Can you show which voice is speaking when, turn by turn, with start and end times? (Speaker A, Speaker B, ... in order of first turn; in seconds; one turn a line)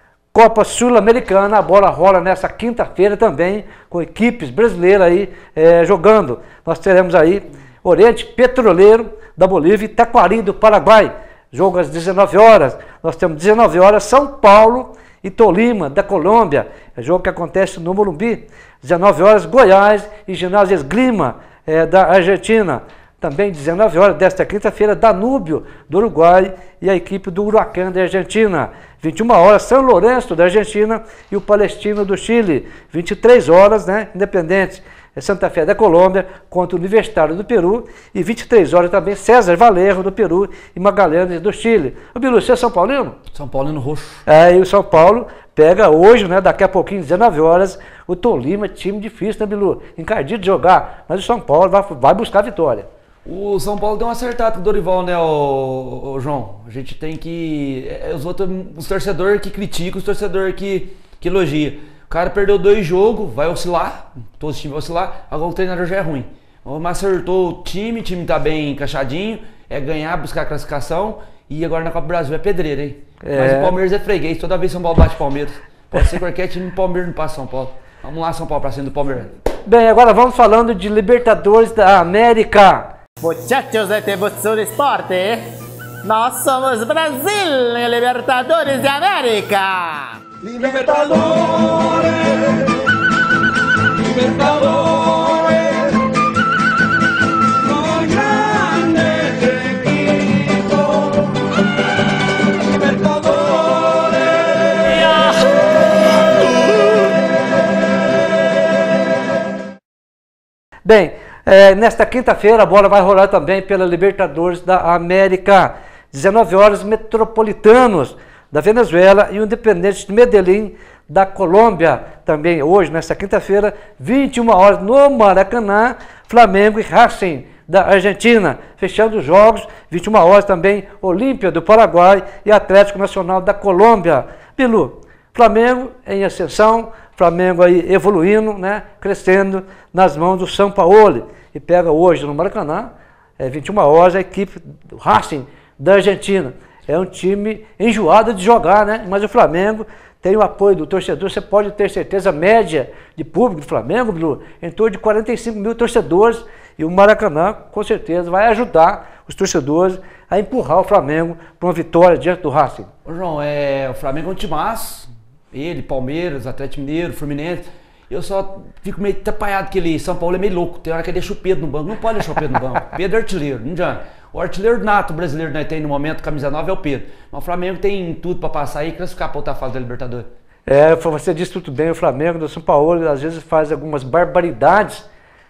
Speaker A: 0.3-43.2
Speaker B: 43.3-44.2
Speaker A: 44.3-52.9
Speaker B: 53.2-79.3
Speaker A: 73.2-73.8
Speaker A: 79.7-82.9
Speaker C: 83.2-85.4
Speaker C: 86.0-92.1
Speaker C: 94.1-95.5
Speaker C: 97.8-99.8
Speaker C: 102.9-103.4
Speaker A: 110.8-162.9
Speaker B: 163.1-180.3
Speaker A: 180.7-185.1